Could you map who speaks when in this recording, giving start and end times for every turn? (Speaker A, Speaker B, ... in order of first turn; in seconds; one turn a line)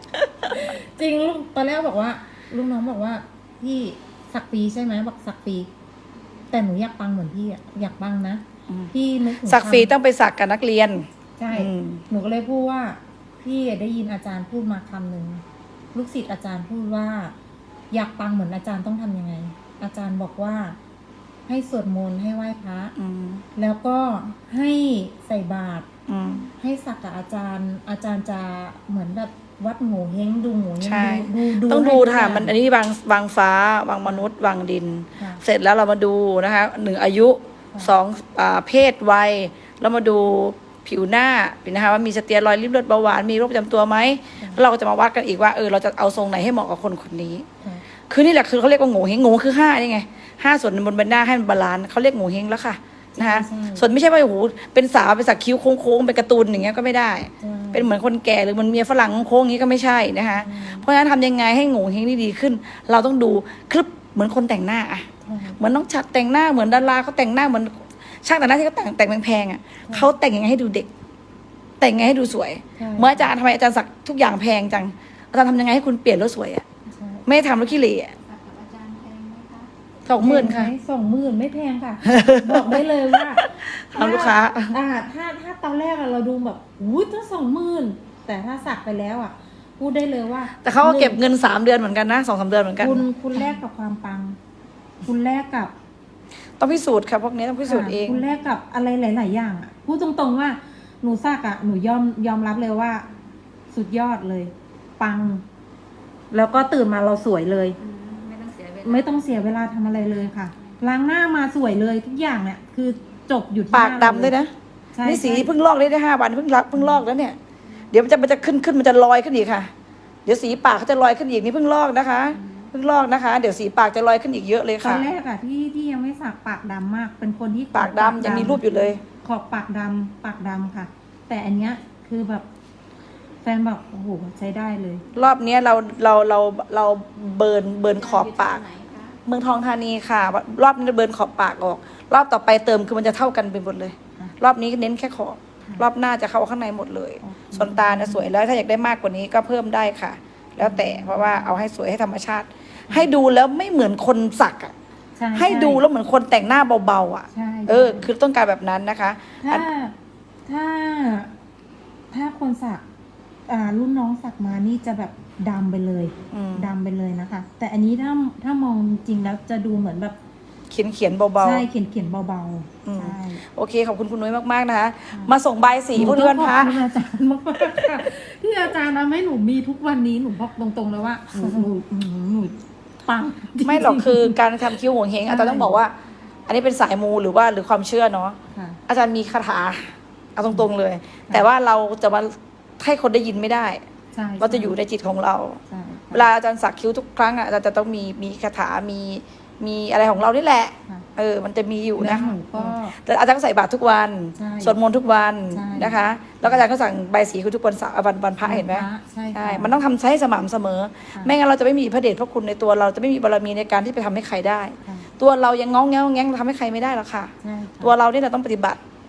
Speaker A: 0.5-5.7
Speaker A: 6.5-9.9
Speaker B: 9.4-12.0
Speaker A: 11.4-15.4
Speaker A: 15.9-17.3
Speaker A: 17.9-20.8
Speaker A: 21.5-22.9
Speaker B: 23.0-23.4
Speaker A: 23.6-25.9
Speaker B: 26.1-26.5
Speaker A: 26.6-32.5
Speaker B: 30.8-47.5
Speaker A: 35.2-35.4
Speaker B: 48.1-65.1
Speaker A: 53.2-53.9
Speaker A: 57.4-57.9
Speaker A: 60.4-60.9
Speaker A: 65.2-65.6
Speaker B: 65.6-70.9
Speaker B: 71.8-76.7
Speaker A: 72.8-73.3
Speaker A: 77.0-77.5
Speaker B: 77.2-78.2
Speaker C: 78.2-79.7
Speaker B: 80.0-80.7
Speaker A: 80.2-91.2
Speaker B: 82.0-82.8
Speaker B: 83.4-84.8
Speaker B: 90.6-93.0
Speaker A: 92.8-94.4
Speaker A: 95.0-95.7
Speaker B: 96.6-98.2
Speaker A: 97.7-103.1
Speaker A: 103.7-105.4
Speaker A: 106.3-107.8
Speaker C: 107.8-109.0
Speaker A: 108.8-114.3
Speaker B: 113.7-114.5
Speaker A: 115.0-115.5
Speaker B: 115.0-117.4
Speaker B: 117.9-119.7
Speaker B: 120.2-125.0
Speaker A: 124.8-128.6
Speaker B: 127.7-129.0
Speaker A: 129.2-132.5
Speaker A: 133.4-135.0
Speaker B: 135.1-154.7
Speaker C: 138.4-139.2
Speaker A: 147.2-148.2
Speaker A: 150.6-151.6
Speaker A: 155.2-155.8
Speaker B: 155.3-159.7
Speaker A: 157.3-158.1
Speaker A: 159.4-159.9
Speaker A: 160.5-161.3
Speaker A: 162.1-162.8
Speaker A: 163.5-170.2
Speaker B: 166.3-166.7
Speaker B: 170.7-171.7
Speaker A: 171.4-173.4
Speaker B: 172.8-176.8
Speaker A: 175.9-184.8
Speaker B: 177.6-178.0
Speaker B: 181.3-181.7
Speaker B: 183.6-185.9
Speaker A: 185.3-185.8
Speaker B: 186.5-188.4
Speaker A: 188.5-188.8
Speaker B: 188.9-193.8
Speaker A: 194.1-194.8
Speaker B: 194.4-195.6
Speaker A: 195.7-196.3
Speaker B: 196.1-218.8
Speaker A: 202.0-203.0
Speaker A: 204.4-204.8
Speaker A: 205.5-206.6
Speaker A: 208.4-209.8
Speaker A: 217.4-217.9